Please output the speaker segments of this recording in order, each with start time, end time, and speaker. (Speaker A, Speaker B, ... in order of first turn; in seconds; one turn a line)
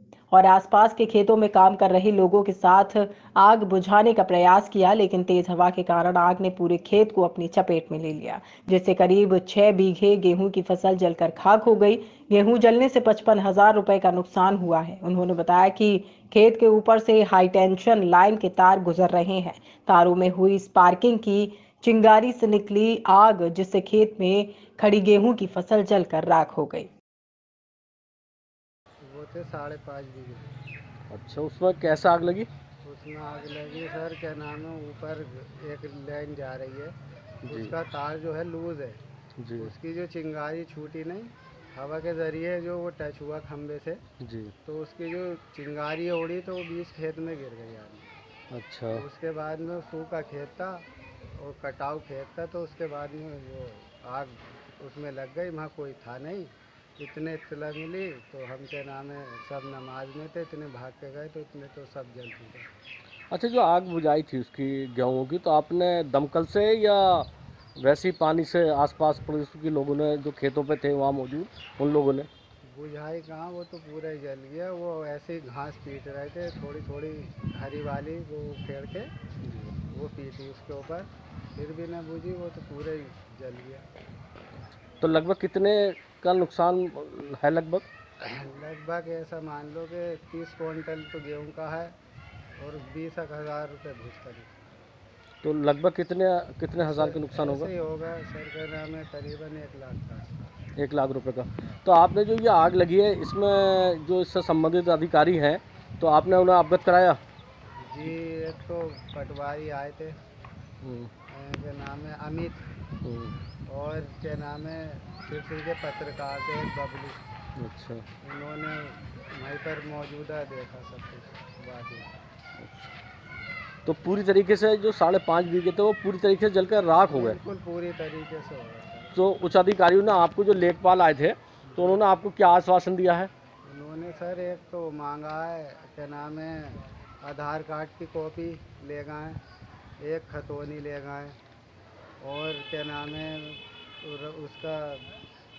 Speaker A: 0.3-26.9
Speaker B: 29.0-30.5
Speaker C: 31.1-32.5
Speaker B: 32.8-39.0
Speaker C: 37.5-37.8
Speaker C: 39.4-39.7
Speaker B: 39.6-44.0
Speaker C: 44.2-44.5
Speaker B: 44.6-48.1
Speaker C: 48.5-49.0
Speaker B: 48.9-50.8
Speaker B: 51.4-62.7
Speaker C: 63.3-72.3
Speaker B: 72.6-79.1
Speaker C: 79.4-79.7
Speaker B: 79.8-83.9
Speaker C: 85.0-87.8
Speaker B: 88.2-91.9
Speaker B: 92.6-94.5
Speaker C: 95.4-97.7
Speaker B: 96.8-100.6
Speaker C: 100.8-107.2
Speaker B: 107.8-110.2
Speaker C: 110.8-111.1
Speaker B: 111.3-112.7
Speaker C: 113.0-113.3
Speaker B: 113.7-117.3
Speaker C: 117.6-118.0
Speaker B: 118.2-122.1
Speaker C: 122.6-122.9
Speaker C: 123.8-127.4
Speaker B: 127.1-129.1
Speaker C: 129.1-133.3
Speaker B: 131.7-132.1
Speaker B: 133.6-139.4
Speaker B: 140.0-141.4
Speaker B: 142.2-145.1